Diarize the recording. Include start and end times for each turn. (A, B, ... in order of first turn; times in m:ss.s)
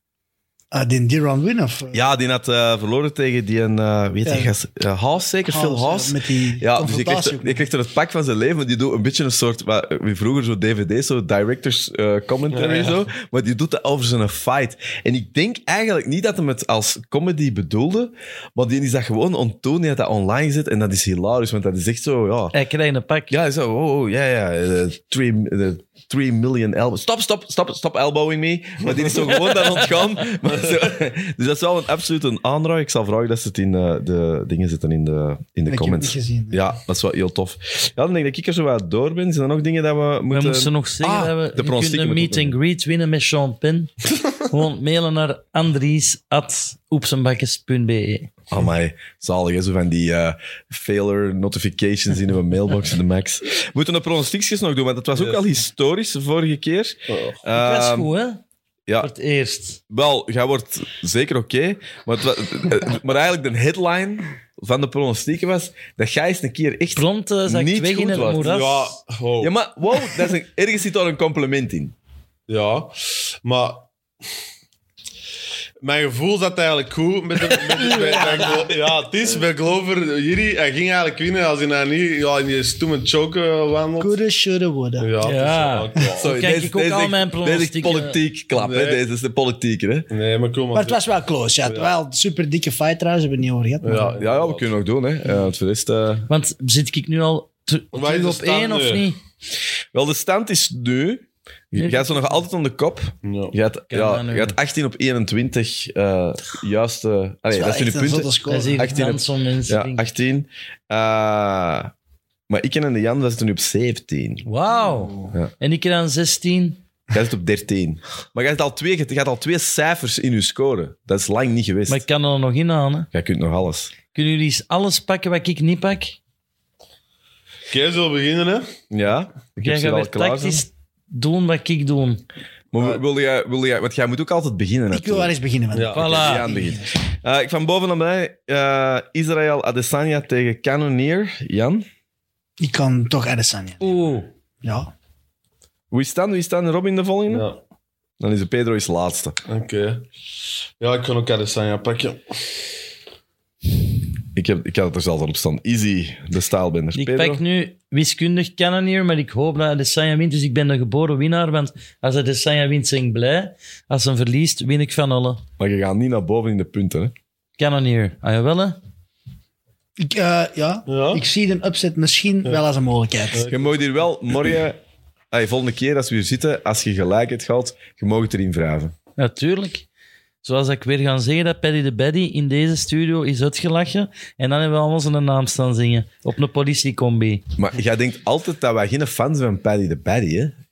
0:00.7-0:02.0 A
0:01.9-0:22.5 B
0:04.2-0:04.5 A
0:05.5-0:07.6 A
0:12.5-0:13.0 C
0:22.5-0:23.4 D
0:23.3-0:42.6 B
0:35.7-0:36.6 A
0:40.3-0:48.3 D
0:48.5-0:58.1 B
0:55.2-0:55.4 C
0:57.1-0:57.3 C
0:57.5-0:58.4 D
0:59.0-0:59.8 D
0:59.9-1:08.6 B
1:06.9-1:09.0 D
1:08.3-1:09.5 C
1:09.4-1:11.9 B
1:12.5-1:13.8 C
1:15.8-1:24.2 C
1:17.7-1:18.7 A
1:24.0-1:25.1 A
1:25.0-1:26.3 C
1:25.2-1:28.2 D
1:26.2-1:30.1 B
1:28.5-1:29.0 C
1:30.1-1:31.0 C
1:30.7-1:34.2 A
1:31.6-1:31.9 C
1:33.8-1:34.8 C
1:34.2-1:36.3 B
1:36.3-1:39.2 D
1:37.9-1:39.1 C
1:39.9-1:51.9 B
1:41.7-1:42.2 D
1:43.2-1:43.6 C
1:43.9-1:44.6 D
1:47.5-1:49.1 A
1:48.5-1:50.1 D
1:52.5-1:54.4 B
1:54.4-1:56.8 D
1:54.8-1:55.3 A
1:57.1-2:02.0 B
2:01.9-2:03.1 D
2:03.1-2:03.9 B
2:04.1-2:06.2 D
2:07.7-2:08.7 C
2:08.9-2:10.6 B
2:09.6-2:12.2 D
2:12.7-2:15.3 B
2:12.7-2:13.0 C
2:14.9-2:17.0 A
2:15.7-2:16.1 C
2:15.9-2:16.5 D
2:15.9-2:21.8 B
2:22.6-2:23.8 A
2:23.8-2:24.3 D
2:24.6-2:24.9 A
2:25.9-2:27.5 B
2:27.3-2:27.6 C
2:28.2-2:29.4 B
2:29.5-2:30.1 C
2:30.8-2:32.3 C
2:34.3-2:37.4 B
2:36.9-2:45.4 D
2:45.6-2:47.1 B
2:47.6-2:48.8 D
2:50.0-2:53.5 A
2:50.9-2:51.2 C
2:53.3-2:53.8 C
2:53.4-2:54.8 B
2:55.3-2:58.9 B
2:59.2-2:59.9 D
3:00.4-3:07.4 D
3:07.6-3:10.5 B